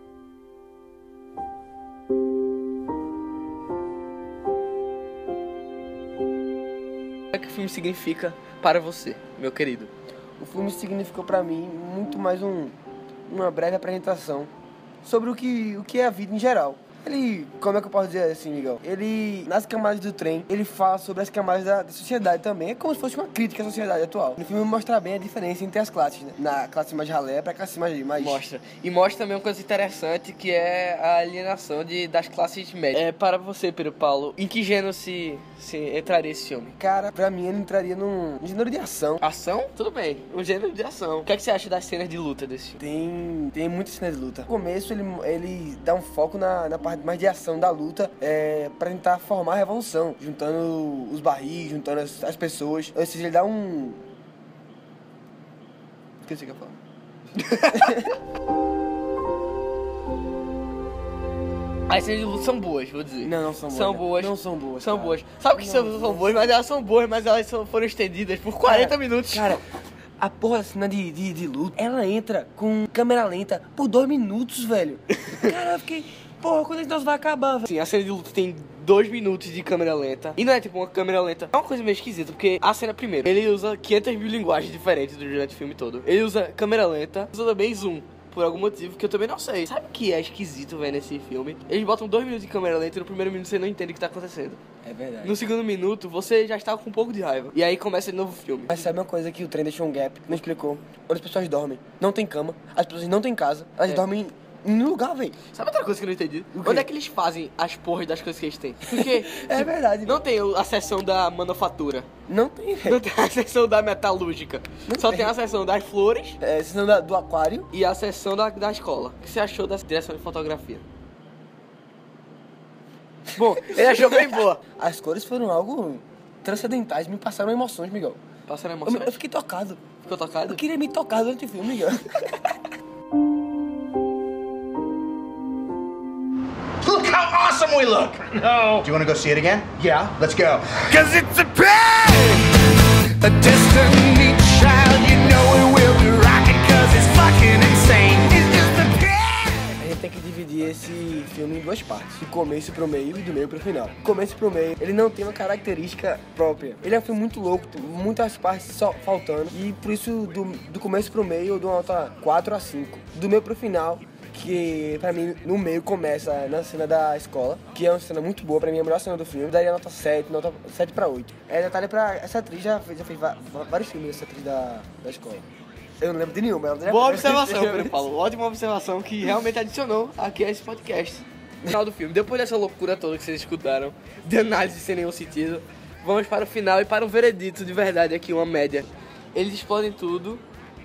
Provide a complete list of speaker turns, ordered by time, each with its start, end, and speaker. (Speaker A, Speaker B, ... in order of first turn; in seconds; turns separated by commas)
Speaker A: 7.3-9.9, Speaker B: 10.4-12.7, Speaker B: 13.3-14.5, Speaker B: 15.0-28.4, Speaker A: 28.2-36.7, Speaker B: 36.8-39.2, Speaker A: 39.2-42.8, Speaker B: 42.8-54.0, Speaker B: 56.2-56.8, Speaker A: 57.4-58.0, Speaker B: 57.7-58.1, Speaker A: 61.9-69.6, Speaker B: 63.2-66.5, Speaker B: 68.6-69.6, Speaker B: 70.2-77.7, Speaker A: 75.2-75.5, Speaker A: 77.6-94.6, Speaker B: 94.8-95.4, Speaker A: 95.2-98.8, Speaker B: 98.7-105.4, Speaker A: 105.5-112.1, Speaker B: 106.5-106.9, Speaker B: 108.8-110.2, Speaker B: 112.3-113.0, Speaker A: 112.8-116.4, Speaker B: 114.9-115.3, Speaker B: 116.4-117.7, Speaker A: 117.7-120.8, Speaker B: 123.3-128.2, Speaker A: 123.4-124.6, Speaker A: 128.4-129.2, Speaker B: 128.8-129.8, Speaker A: 130.0-130.6, Speaker B: 130.4-132.5, Speaker C: 136.8-149.7, Speaker B: 149.8-175.4, Speaker B: 176.0-178.0, Speaker A: 176.8-190.4